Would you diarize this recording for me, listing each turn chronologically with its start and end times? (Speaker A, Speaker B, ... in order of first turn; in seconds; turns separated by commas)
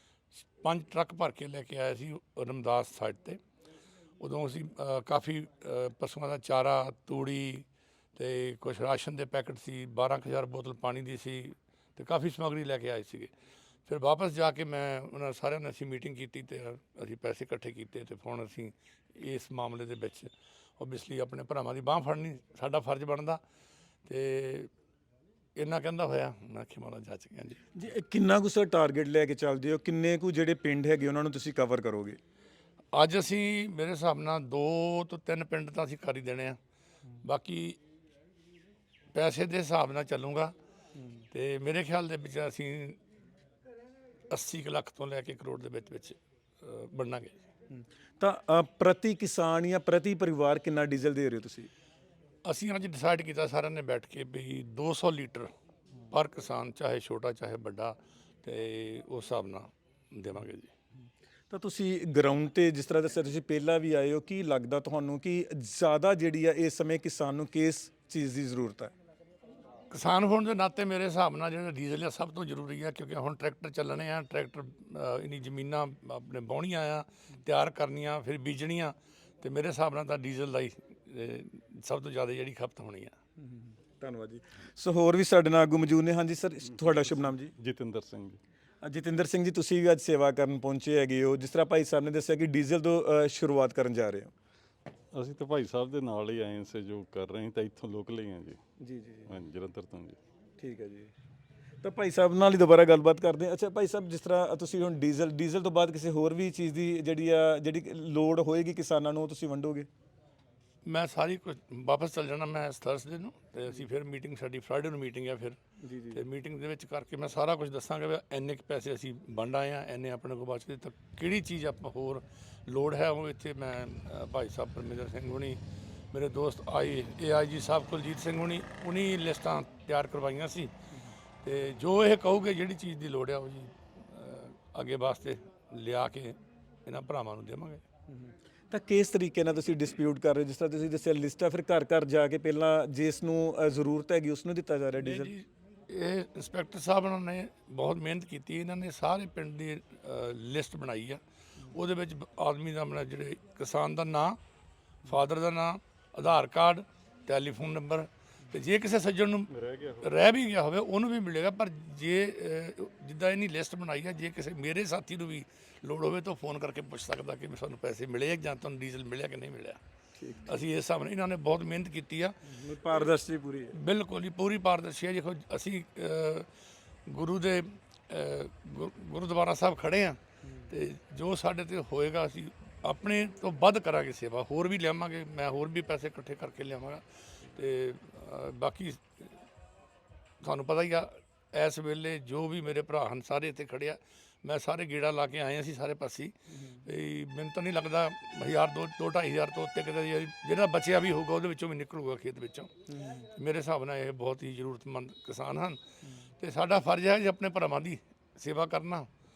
Speaker A: 0.6-3.4, Speaker A: 4.2-13.3, Speaker A: 13.9-23.4, Speaker A: 24.1-24.7, Speaker A: 25.6-27.6, Speaker B: 27.8-32.2, Speaker A: 32.9-36.6, Speaker A: 37.2-37.8, Speaker A: 39.1-40.5, Speaker A: 41.3-43.0, Speaker A: 44.3-47.4, Speaker B: 47.7-51.7, Speaker A: 52.5-55.5, Speaker A: 56.1-60.7, Speaker B: 61.5-68.9, Speaker A: 69.9-83.2, Speaker B: 83.4-87.5, Speaker C: 86.8-88.4, Speaker B: 88.8-94.3, Speaker C: 95.1-98.6, Speaker B: 98.8-99.3, Speaker C: 99.3-100.2, Speaker B: 100.6-101.1, Speaker B: 101.8-109.9, Speaker A: 110.9-115.6, Speaker B: 115.8-116.2, Speaker A: 116.1-125.6, Speaker A: 126.1-130.7, Speaker A: 131.4-137.8, Speaker B: 138.1-145.3, Speaker A: 145.0-151.2, Speaker A: 151.7-154.4, Speaker A: 155.1-159.5, Speaker C: 159.5-160.1, Speaker A: 160.0-169.8, Speaker B: 170.2-170.5, Speaker A: 170.4-172.4, Speaker B: 172.5-173.8, Speaker A: 173.7-176.5, Speaker A: 177.1-180.2, Speaker A: 180.7-189.3, Speaker A: 190.4-202.7, Speaker B: 196.5-196.8, Speaker B: 202.9-203.3, Speaker A: 203.2-205.8, Speaker A: 206.4-209.1